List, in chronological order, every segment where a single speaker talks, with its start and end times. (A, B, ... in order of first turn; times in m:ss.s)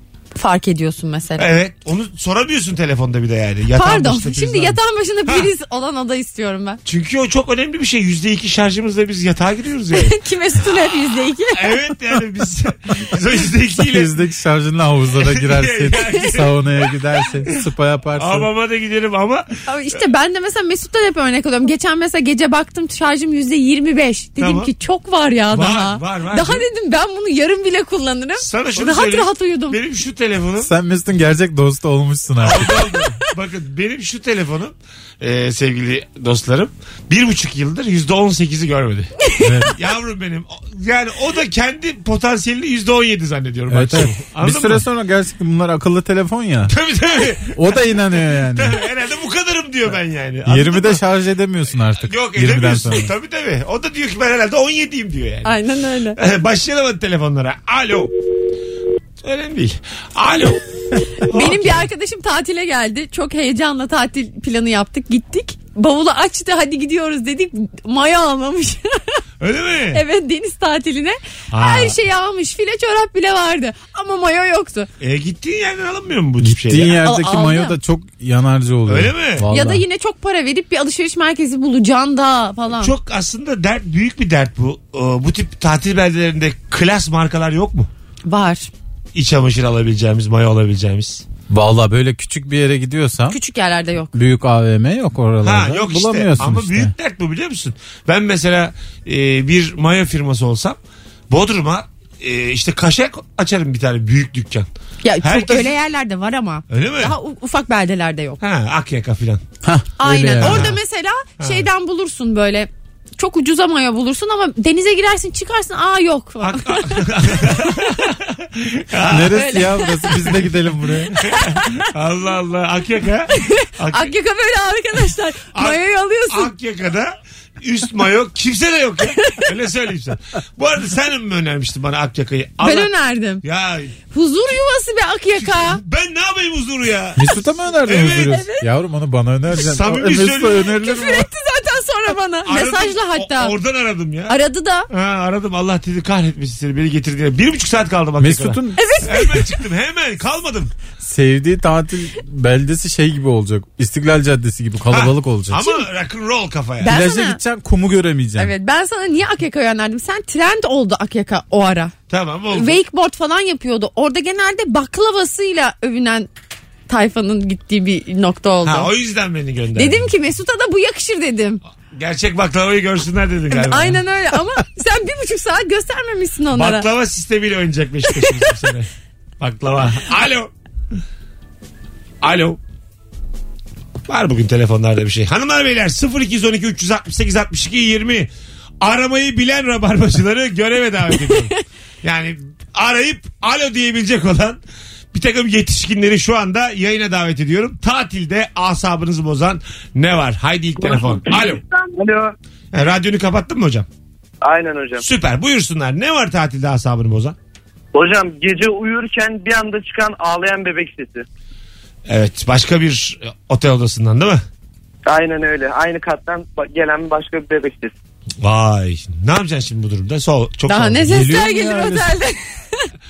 0:00.3-0:01.5 A
0:01.4-0:05.5 B
0:03.7-0:06.8 A
0:06.8-0:10.2 B
0:09.9-0:11.8 A
0:11.5-0:14.1 B
0:13.7-0:18.5 C
0:15.2-0:16.7 B
0:18.1-0:19.5 B
0:19.7-0:29.8 A
0:24.4-0:24.7 B
0:25.5-0:26.7 B
0:28.4-0:30.7 B
0:30.6-0:32.9 C
0:32.4-0:39.1 B
0:39.4-0:39.7 C
0:39.7-0:44.8 B
0:43.7-0:46.7 C
0:46.7-0:47.8 B
0:47.5-0:48.8 C
0:48.5-0:51.0 B
0:50.4-0:53.1 C
0:52.0-0:55.5 B
0:55.4-0:56.2 A
0:56.1-0:58.1 B
0:59.2-1:01.8 B
1:01.3-1:09.2 A
1:09.4-1:10.0 B
1:09.9-1:14.9 A
1:11.5-1:12.0 B
1:15.0-1:17.0 B
1:16.4-1:19.8 C
1:17.0-1:17.8 A
1:18.9-1:19.4 B
1:19.5-1:22.9 A
1:22.8-1:27.9 B
1:28.2-1:28.7 A
1:29.1-1:31.2 B
1:31.5-1:33.4 C
1:33.3-1:34.1 A
1:34.1-1:36.9 C
1:35.4-1:40.8 B
1:41.3-1:44.7 B
1:45.0-1:48.4 A
1:45.2-1:45.7 B
1:46.7-1:47.1 B
1:48.4-1:49.4 B
1:49.6-1:50.7 C
1:50.0-1:57.9 A
1:50.4-1:50.8 B
1:51.4-1:51.6 B
1:56.4-1:59.5 B
1:59.1-2:01.1 C
1:59.3-2:00.2 A
2:01.2-2:04.1 B
2:01.2-2:01.8 A
2:03.3-2:06.5 A
2:05.5-2:12.9 B
2:09.2-2:09.4 A
2:12.6-2:13.4 A
2:13.4-2:13.9 B
2:14.1-2:15.8 A
2:15.4-2:18.3 B
2:17.2-2:21.3 C
2:17.9-2:18.6 A
2:19.5-2:20.7 B
2:20.7-2:23.5 A
2:22.4-2:24.4 B
2:24.3-2:24.9 A
2:24.9-2:30.7 B
2:28.2-2:29.0 C
2:28.8-2:29.6 A
2:31.0-2:35.6 C
2:34.9-2:36.9 B
2:35.6-2:35.8 A
2:36.8-2:37.4 A
2:36.8-2:38.5 C
2:38.4-2:41.9 A
2:42.1-2:42.8 B
2:42.5-2:46.3 A
2:46.9-2:48.9 A
2:48.6-2:50.0 B
2:49.7-2:51.6 A
2:51.9-2:54.0 B
2:53.5-2:56.9 A
2:56.5-2:58.9 B
2:58.1-2:58.5 A
2:59.4-3:00.5 B
3:02.2-3:02.6 B
3:04.1-3:08.3 B
3:08.8-3:11.5 B
3:11.2-3:11.6 A
3:12.0-3:14.6 B
3:15.1-3:21.6 B
3:20.8-3:22.3 D
3:22.7-3:23.9 B
3:24.4-3:25.0 D
3:25.0-3:27.4 B
3:27.9-3:31.2 D
3:32.0-3:34.4 B
3:35.0-3:37.9 D
3:38.4-3:41.2 B
3:40.7-3:42.9 A
3:41.1-3:42.1 C